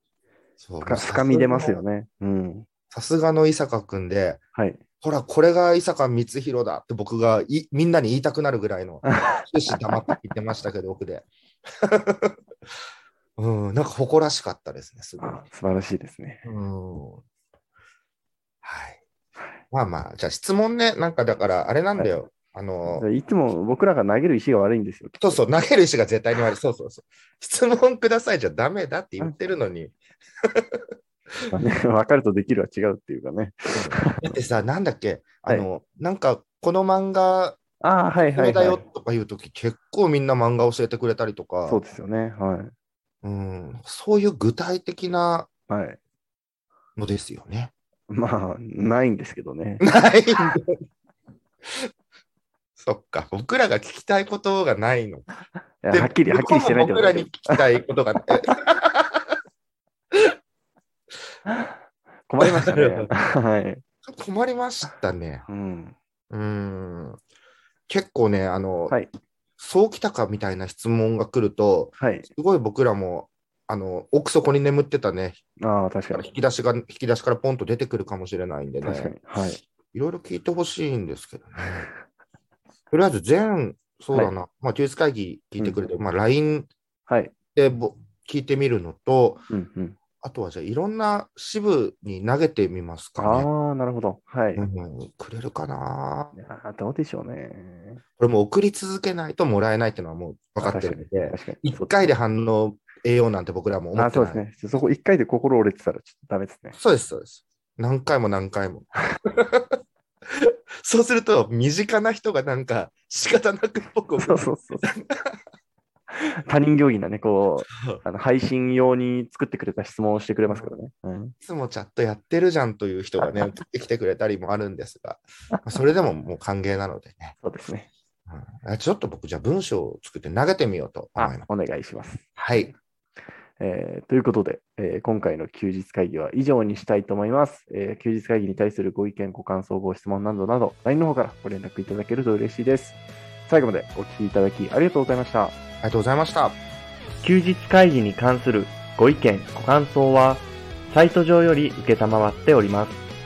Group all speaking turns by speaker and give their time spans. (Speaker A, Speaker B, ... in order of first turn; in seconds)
Speaker A: 0.6-1.8, 2.9-4.4, 5.0-12.4, 13.4-15.4, 16.4-17.2, 18.6-19.0, 19.7-23.1, 25.2-30.8, 33.7-37.6, 38.3-41.8, 43.2-45.5, 47.0-47.7, 49.8-50.7, 52.8-55.3, 55.9-59.3, 62.4-63.1, 64.0-65.5, 66.3-67.2, 67.9-69.0, 69.6-75.4, 76.1-79.2, 79.9-81.9, 82.9-86.7, 87.5-89.4, 90.2-93.5, 94.5-96.3, 98.2-104.5, 106.7-115.3, 117.7-118.0, 120.5-120.7, 121.4-127.3, 128.3-131.5, 132.3-132.7, 145.8-146.6
Speaker B: 0.8-2.6, 4.5-4.8, 9.0-9.5, 15.2-16.4, 21.9-22.2, 22.9-25.4, 31.5-34.4, 37.8-38.8, 41.6-42.7, 45.7-46.0, 48.1-49.8, 55.8-57.6, 61.5-61.7, 62.3-63.8, 65.5-66.0, 72.0-72.3, 75.6-76.2, 78.8-79.6, 87.1-87.3, 89.5-90.0, 93.2-94.6, 96.3-98.0, 100.6-101.9, 104.0-106.8, 114.2-114.9, 116.1-121.3, 123.2-123.5, 127.4-127.9, 131.2-132.7, 133.6-145.5, 147.2-153.0